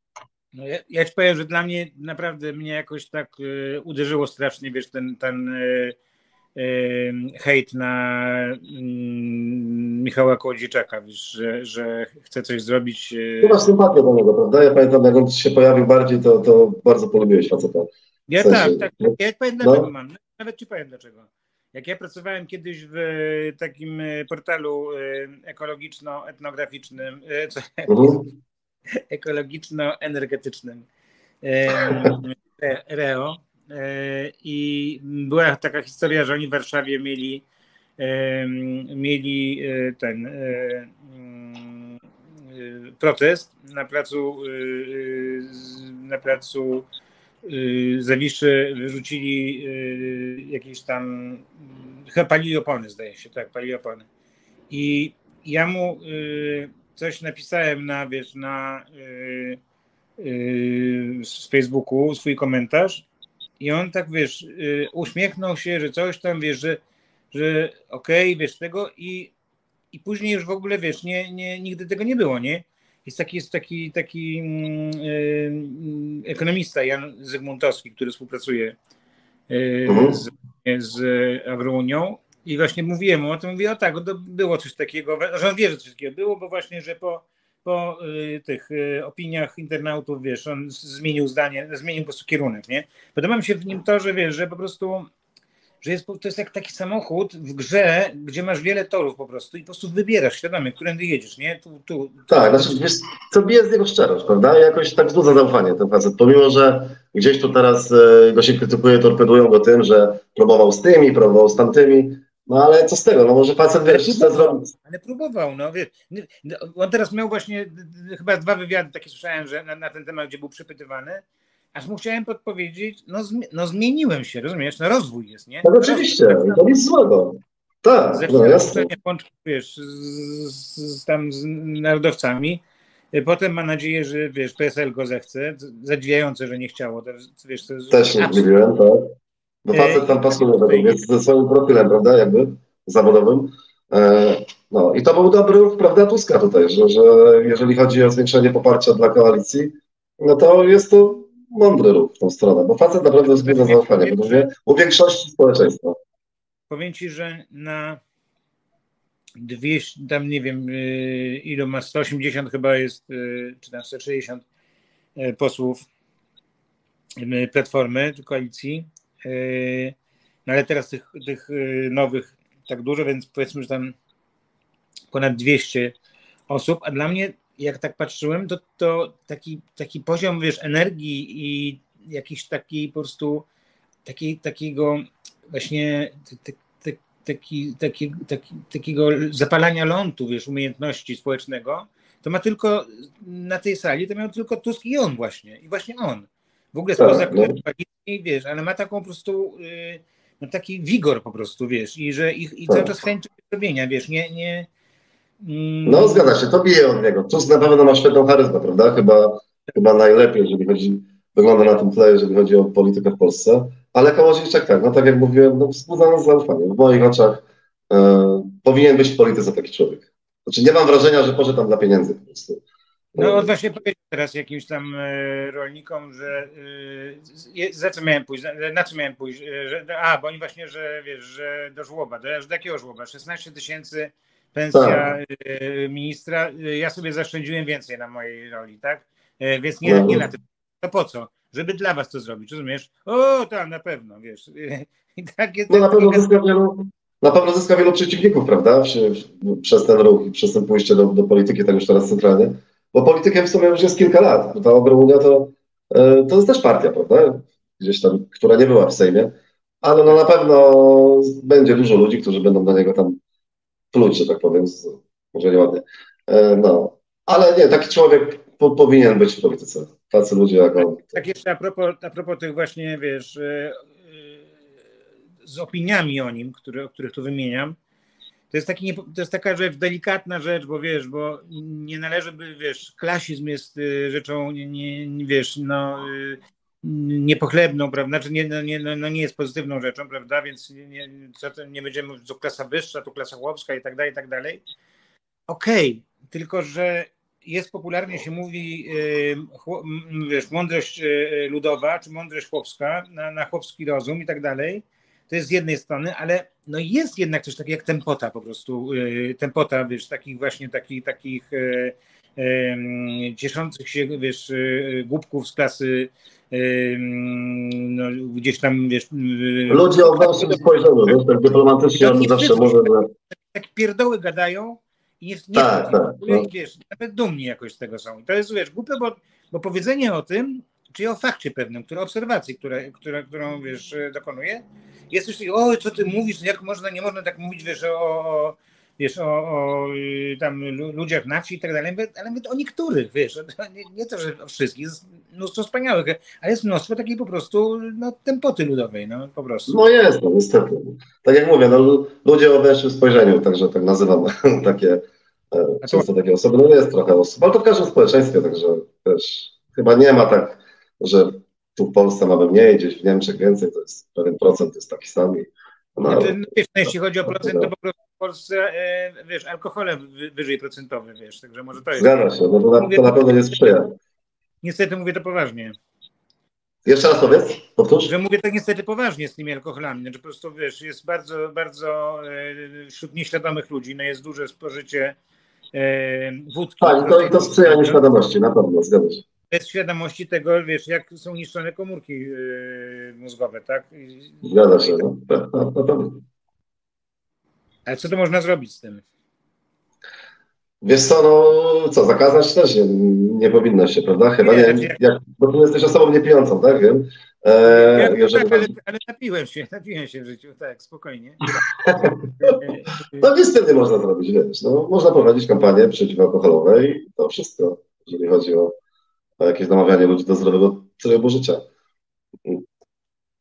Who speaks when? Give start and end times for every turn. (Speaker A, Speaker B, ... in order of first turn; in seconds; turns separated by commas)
Speaker A: 0.5-5.9, Speaker A: 6.5-13.6, Speaker B: 13.4-19.9, Speaker A: 18.3-28.2, Speaker B: 27.9-28.2, Speaker A: 29.1-30.8, Speaker A: 31.4-37.4, Speaker A: 38.0-42.0, Speaker A: 42.5-46.9, Speaker A: 47.4-51.5, Speaker A: 52.0-54.0, Speaker A: 54.7-59.6, Speaker A: 60.2-63.0, Speaker A: 63.6-66.8, Speaker A: 67.3-69.3, Speaker A: 69.9-78.7, Speaker A: 79.5-95.1, Speaker B: 79.8-80.2, Speaker A: 95.8-102.8, Speaker B: 102.3-114.7, Speaker A: 113.9-121.2, Speaker A: 121.7-126.7, Speaker B: 125.6-128.9, Speaker A: 128.1-132.6, Speaker A: 133.1-138.5, Speaker B: 137.9-139.1, Speaker B: 139.6-155.9, Speaker A: 139.7-141.0, Speaker A: 153.2-154.5, Speaker A: 156.7-158.0, Speaker A: 159.4-164.4, Speaker A: 165.2-165.8, Speaker A: 167.2-169.9, Speaker A: 170.4-173.9, Speaker A: 175.1-175.9, Speaker A: 176.5-183.4, Speaker A: 184.0-204.7, Speaker B: 197.0-197.6, Speaker A: 205.4-206.3, Speaker B: 205.8-222.6, Speaker B: 223.1-223.5, Speaker A: 223.2-246.3, Speaker B: 234.7-235.0, Speaker B: 239.8-240.3, Speaker B: 245.7-263.2, Speaker B: 263.9-271.2, Speaker A: 270.8-274.5, Speaker A: 275.4-277.8, Speaker A: 278.5-294.6, Speaker A: 295.5-320.6, Speaker B: 319.7-323.1, Speaker A: 322.0-349.8, Speaker B: 325.5-326.5, Speaker B: 349.7-366.4, Speaker A: 366.0-372.1, Speaker B: 367.3-367.7, Speaker B: 371.9-373.9, Speaker A: 372.7-373.7, Speaker A: 374.6-375.7, Speaker B: 376.9-378.1, Speaker A: 378.0-385.1, Speaker A: 385.7-388.0, Speaker B: 386.8-389.2, Speaker A: 389.5-395.0, Speaker B: 394.4-396.2, Speaker A: 397.9-399.0, Speaker B: 400.8-408.7, Speaker A: 404.4-405.0, Speaker A: 407.6-413.3, Speaker B: 411.9-412.6, Speaker B: 413.2-418.8, Speaker B: 419.4-421.6